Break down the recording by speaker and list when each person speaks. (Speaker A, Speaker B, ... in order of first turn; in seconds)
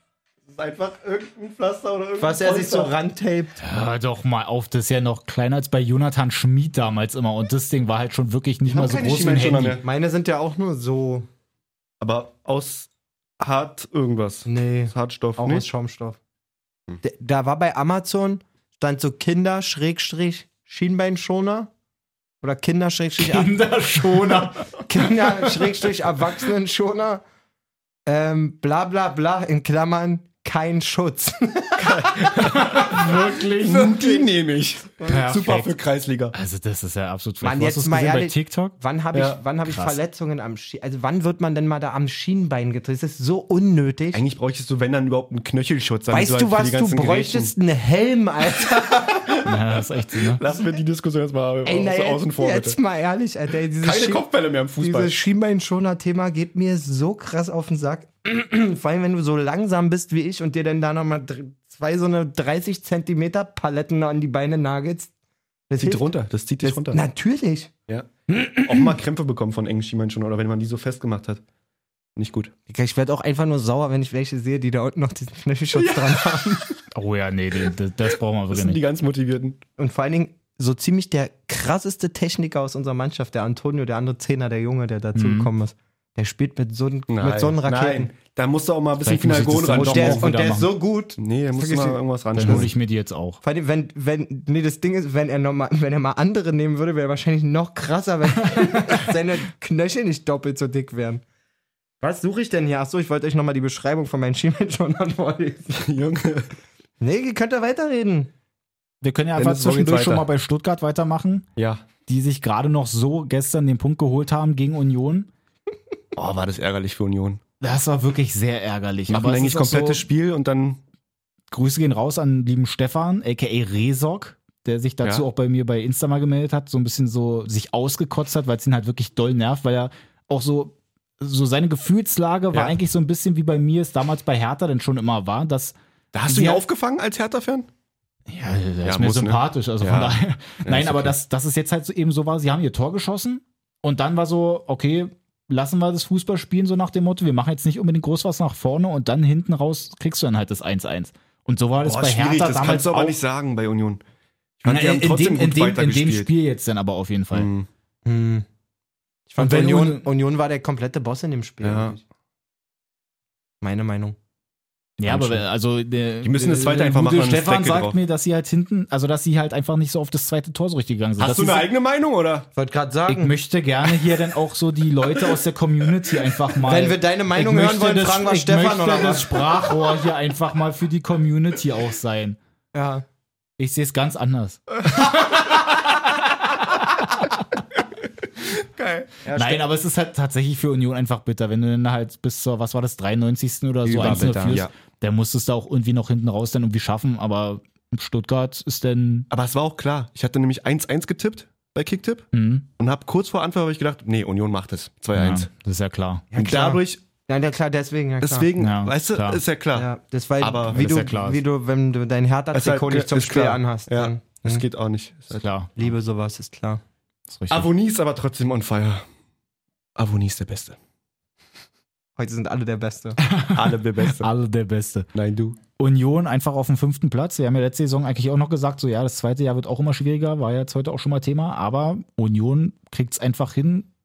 Speaker A: 0.5-2.9, 8.7-9.8, 12.0-15.7, 31.8-36.4, 39.1-39.4, 44.1-47.5, 50.2-52.8, 53.8-55.2, 65.8-67.0, 68.6-71.4, 72.2-72.5, 78.5-79.6, 87.1-90.3, 91.2-92.7, 105.8-106.5, 109.4-110.3, 111.6-111.8, 116.2-117.4, 119.1-120.8, 136.1-137.7, 138.8-141.2, 151.8-154.0, 154.6-156.3, 157.3-157.7, 161.6-162.0, 165.1-165.4, 166.2-168.0, 171.2-172.5, 188.8-189.3, 194.5-194.7, 199.3-205.5, 206.3-207.0, 208.2-209.9, 210.4-210.9, 212.5-215.4, 217.5-219.1, 220.0-220.8, 223.5-224.3, 225.1-225.6
Speaker B: 2.2-3.6, 9.8-11.3, 14.5-16.2, 17.0-21.7, 22.4-27.2, 28.1-32.8, 33.8-34.2, 37.4-44.2, 46.1-49.4, 51.6-54.3, 54.8-65.1, 65.7-67.7, 68.3-69.0, 72.7-76.8, 79.8-88.1, 89.8-92.7, 93.4-101.2, 102.0-105.9, 107.0-108.3, 158.1-158.4, 159.3-162.0, 163.6-164.2, 172.6-173.3, 176.6-179.5, 182.7-183.0, 189.2-189.6, 193.8-194.6, 206.3-208.5, 209.8-214.6, 215.8-216.8, 222.2-223.2
Speaker C: 3.6-9.8, 23.2-25.8, 32.5-34.0, 35.0-35.7, 36.3-38.8, 39.7-40.0, 49.4-50.4, 76.9-78.8, 85.2-85.5, 89.0-90.7, 92.3-93.4, 109.0-111.5, 112.1-115.3, 117.6-120.1, 121.5-136.6, 138.3-153.2, 154.7-157.5, 159.4-160.0, 165.0-171.7, 173.1-182.4, 183.6-185.6, 189.3-199.3, 202.3-202.7, 205.1-206.3, 208.6-209.4, 210.7-211.4, 215.3-215.7, 217.3-217.7, 223.2-225.1, 225.8-233.9